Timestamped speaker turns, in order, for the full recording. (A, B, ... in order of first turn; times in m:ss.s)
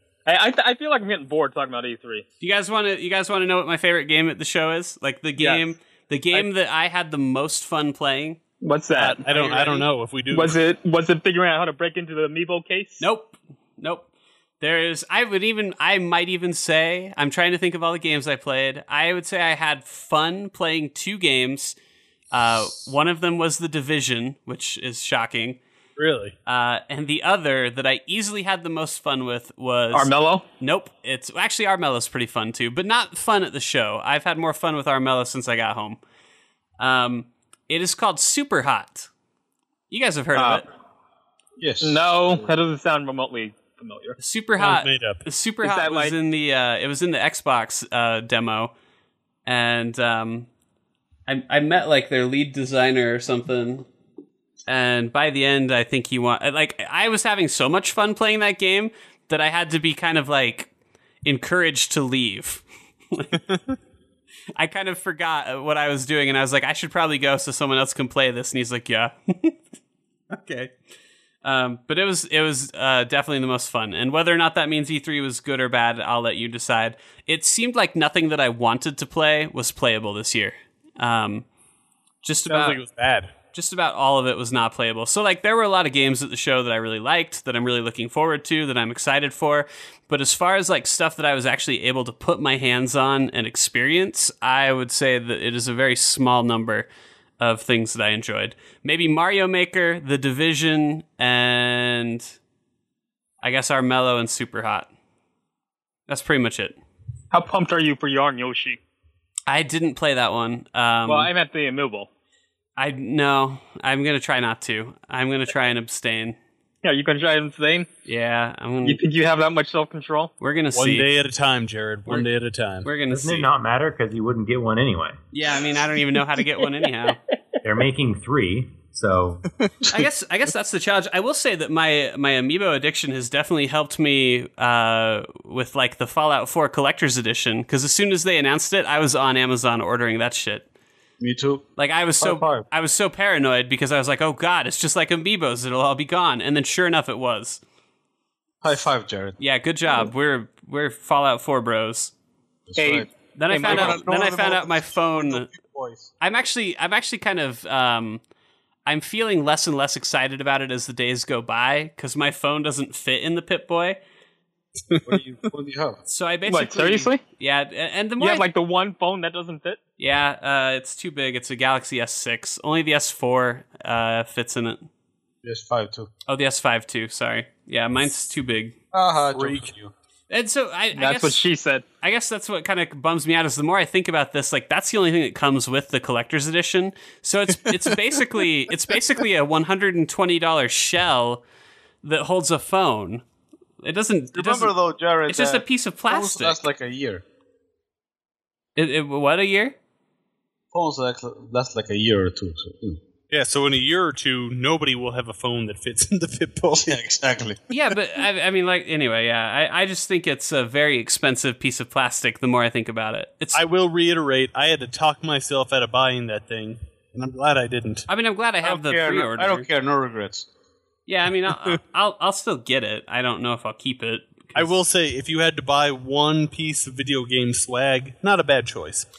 0:00.2-0:02.2 A
0:02.4-0:08.4 B
0:08.6-0:09.2 A
0:09.0-0:10.6 C
0:09.2-0:09.9 B
0:10.3-0:13.0 A
0:13.0-0:14.1 B
0:14.6-0:21.8 B
0:22.3-0:25.6 B
0:26.0-0:26.3 C
0:26.4-0:36.0 B
0:29.9-0:30.4 A
0:36.8-0:39.1 B
0:39.9-0:40.7 B
0:40.3-0:40.6 A
0:41.6-0:42.5 D
0:41.8-0:44.2 A
0:44.2-0:48.7 B
0:44.6-0:45.2 C
0:45.6-0:46.1 A
0:49.4-0:50.5 B
0:51.3-0:53.9 B
0:54.7-1:00.7 B
1:01.2-1:03.4 B
1:04.6-1:09.6 B
1:10.3-1:10.7 B
1:11.4-1:21.4 B
1:22.2-1:22.8 B
1:22.5-1:23.3 C
1:23.5-1:42.3 B
1:43.4-1:44.9 B
1:46.1-1:46.8 B
1:47.3-1:48.8 A
1:49.5-1:51.3 B
1:51.1-1:52.1 A
1:52.8-1:56.4 B
1:56.8-1:57.9 A
1:58.0-1:59.0 B
1:58.8-2:00.3 A
2:00.4-2:01.1 B
2:00.7-2:02.9 C
2:02.8-2:03.5 B
2:03.1-2:05.2 E
2:05.3-2:07.2 B
2:07.6-2:09.4 E
2:09.9-2:20.7 B
2:21.2-2:21.7 D
2:21.8-2:27.6 B
2:22.2-2:22.6 D
2:28.6-2:29.4 D
2:29.4-2:32.1 B
2:32.7-2:33.1 D
2:32.8-2:34.0 A
2:33.4-2:35.5 B
2:33.6-2:36.1 D
2:36.2-2:38.2 B
2:38.8-2:44.0 B
2:45.0-2:46.0 D
2:46.0-2:48.4 B
2:46.5-2:47.2 A
2:48.2-2:49.8 A
2:50.0-2:54.9 B
2:55.4-2:56.1 D
2:56.3-2:58.7 B
2:58.9-2:59.9 D
2:59.3-2:59.7 C
3:00.3-3:01.4 B
3:00.9-3:01.8 A
3:02.0-3:11.4 B
3:12.0-3:13.2 B
3:13.8-3:14.7 B
3:14.3-3:17.2 D
3:15.2-3:16.6 B
3:18.8-3:19.8 B
3:20.7-3:23.0 D
3:23.3-3:27.0 C
3:26.8-3:27.6 D
3:27.7-3:33.6 B
3:33.5-3:38.1 C
3:38.1-3:39.7 B
3:38.6-3:40.5 D
3:41.1-3:44.7 B
3:44.5-3:49.1 C